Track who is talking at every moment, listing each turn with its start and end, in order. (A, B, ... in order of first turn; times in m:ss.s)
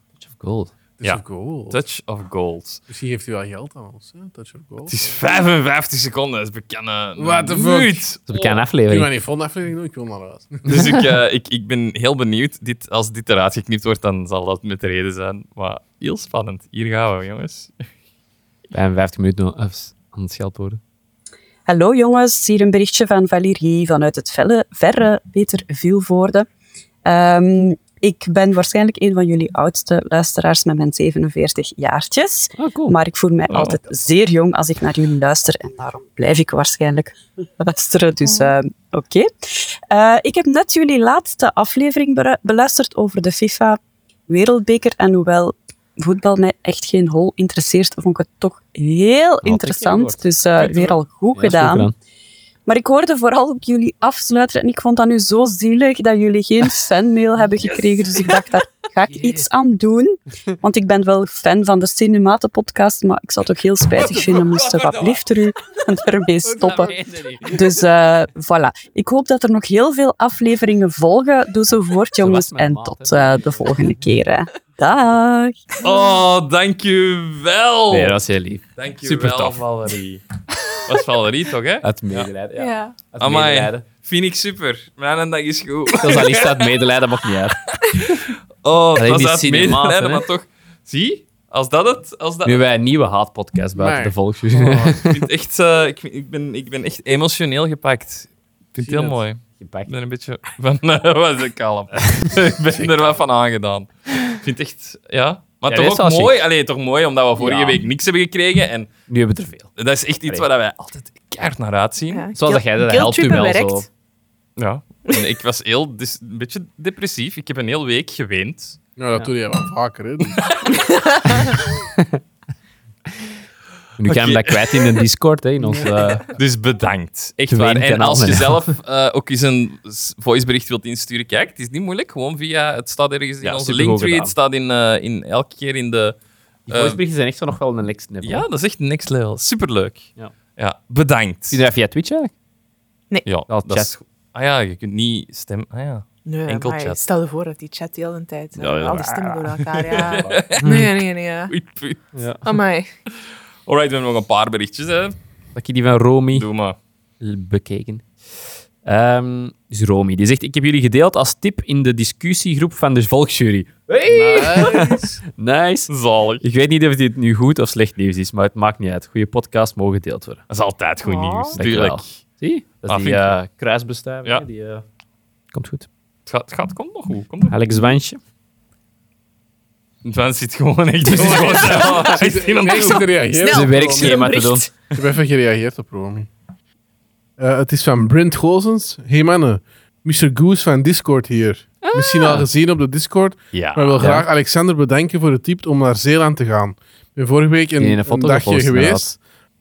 0:00.2-0:00.7 A
0:01.0-0:01.8 B
0:01.0-0:02.8 C
0:02.9-0:05.2 B
0:04.9-0:08.6 C
0:07.2-0:08.0 B
0:08.3-0:09.1 A
0:08.9-0:10.9 B
0:10.7-0:17.8 C
0:18.7-0:20.8 A
0:21.7-0:26.5 D
0:27.0-0:51.9 D
0:32.6-0:33.0 A
0:33.5-0:33.8 C
0:49.4-0:51.9 A
0:52.7-1:15.7 D
0:59.1-0:59.5 A
1:06.4-1:07.8 A
1:12.2-1:14.0 A
1:15.8-1:18.2 C
1:17.9-1:19.6 A
1:18.8-1:20.2 C
1:20.8-1:22.3 C
1:21.8-1:23.8 A
1:22.6-1:23.0 E
1:23.2-1:26.9 C
1:26.0-1:27.7 A
1:27.7-1:32.6 C
1:29.0-1:30.2 A
1:32.4-1:35.2 A
1:33.8-1:34.2 B
1:34.5-1:48.9 C
1:38.8-1:39.2 B
1:39.6-1:39.9 A
1:42.8-1:43.2 B
1:45.7-1:46.4 A
1:47.4-1:47.8 A
1:49.1-1:49.7 A
1:49.8-1:52.3 C
1:52.1-1:53.9 E
1:52.4-1:53.9 A
1:54.6-1:58.8 C
1:59.0-2:00.4 B
2:00.4-2:00.8 C
2:00.8-2:01.5 E
2:04.0-2:06.3 A
2:04.1-2:05.0 C
2:05.6-2:05.9 B
2:05.8-2:16.2 C
2:07.5-2:08.7 A
2:13.4-2:14.3 A
2:16.7-2:18.5 A
2:16.7-2:17.0 C
2:18.2-2:21.6 C
2:21.5-2:22.3 A
2:23.3-2:27.0 C
2:23.5-2:23.9 A
2:26.3-2:31.5 E
2:28.6-2:29.5 A
2:29.7-2:30.9 C
2:30.1-2:30.9 A
2:31.5-2:32.1 C
2:32.2-2:32.4 A
2:32.4-2:32.9 E
2:33.7-2:35.2 C
2:35.6-2:36.5 A
2:36.3-2:36.8 C
2:37.2-2:38.1 A
2:38.8-2:50.4 A
2:44.1-2:45.2 B
2:45.9-2:46.4 C
2:50.5-2:52.2 C
2:51.0-2:51.6 E
2:51.6-2:54.8 A
2:52.9-2:53.4 C
2:55.5-2:55.9 A
2:56.3-2:58.0 C
2:57.5-2:58.2 A
3:00.0-3:03.1 C
3:01.1-3:02.2 A
3:01.2-3:04.3 B
3:02.7-3:04.7 E
3:03.4-3:04.7 A
3:04.9-3:06.3 B
3:07.4-3:19.2 B
3:11.8-3:12.5 A
3:13.5-3:14.1 C
3:14.0-3:14.3 A
3:17.8-3:19.1 A